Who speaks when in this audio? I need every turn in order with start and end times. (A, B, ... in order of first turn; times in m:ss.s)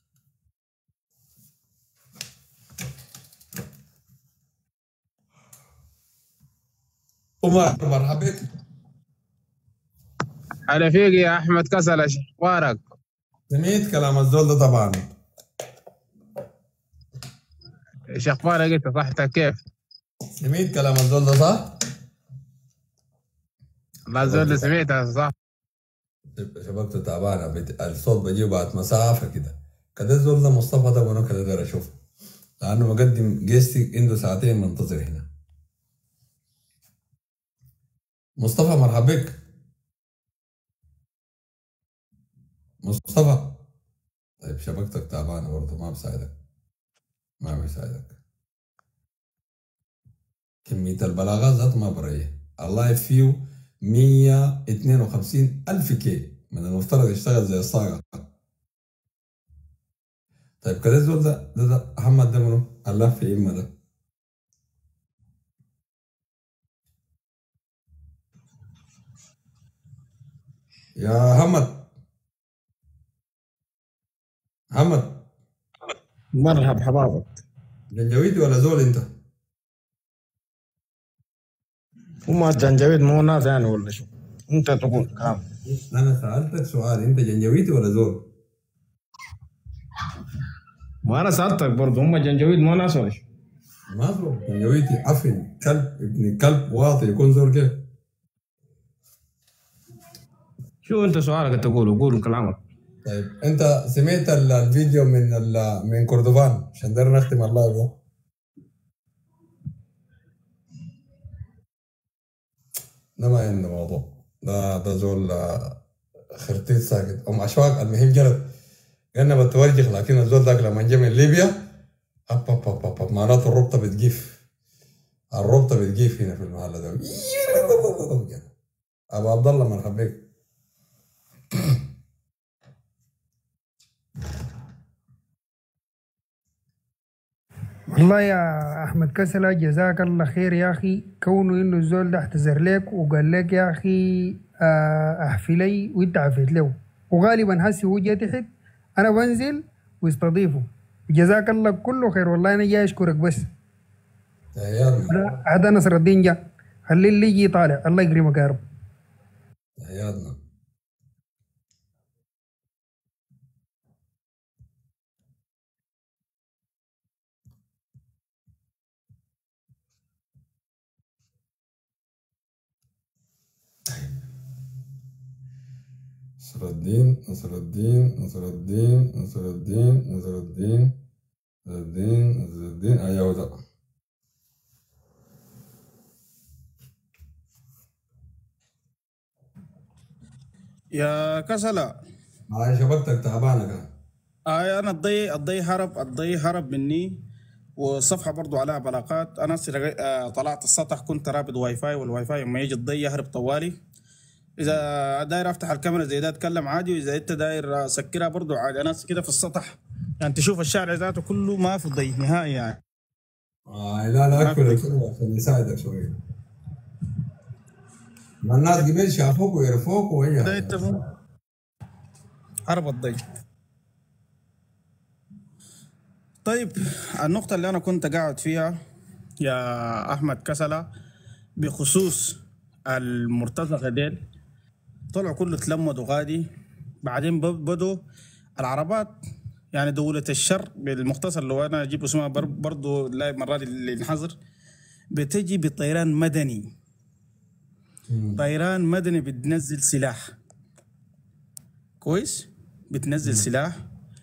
0:07.4-0:08.4 A
0:10.7-0:12.8 B
0:13.5-0:15.0 A
0:18.1-0:19.6 B
0:20.4-0:21.8 A
0:24.1-0:25.3 B
0:24.2-0:24.8 A
0:26.3-0:32.0 A
0:32.6-0:35.3 A
0:38.4-0:39.4 A
0:42.8-0:43.6 A
0:44.4-0:46.3 A
0:47.4-0:48.2 A
0:50.6-0:58.3 A
1:00.6-1:03.7 A
1:11.0-1:11.8 A
1:14.7-1:15.2 A
1:16.3-1:17.3 C
1:17.9-1:19.0 A
1:22.2-1:25.4 C
1:25.6-1:28.3 A
1:31.0-1:33.2 C
1:33.9-1:37.8 A
1:40.8-1:42.6 C
1:43.0-1:48.0 A
1:53.2-1:55.8 A
1:56.3-1:58.5 A
1:59.1-2:01.6 A
2:02.3-2:04.4 A
2:05.3-2:08.5 A
2:09.1-2:10.2 A
2:17.9-2:33.5 D
2:34.5-2:35.2 A
2:35.1-2:38.6 D
2:39.8-2:40.4 A
2:56.4-3:01.0 A
3:01.6-3:03.6 A
3:11.0-3:11.9 E
3:12.5-3:13.9 A
3:14.5-3:17.2 E
3:17.8-3:23.7 E
3:24.6-3:32.8 E
3:33.7-3:36.2 A
3:34.4-3:34.8 E
3:38.4-3:41.1 A
3:40.4-3:41.0 E
3:42.7-3:43.2 E
3:46.4-3:48.7 E
3:49.4-3:50.8 E
3:51.6-3:54.2 E
3:55.1-3:56.5 E
3:57.0-3:58.0 E
3:58.6-3:59.2 E
3:59.7-4:04.4 E
4:05.1-4:06.7 E
4:08.1-4:08.4 A
4:08.4-4:10.2 E
4:12.0-4:13.7 E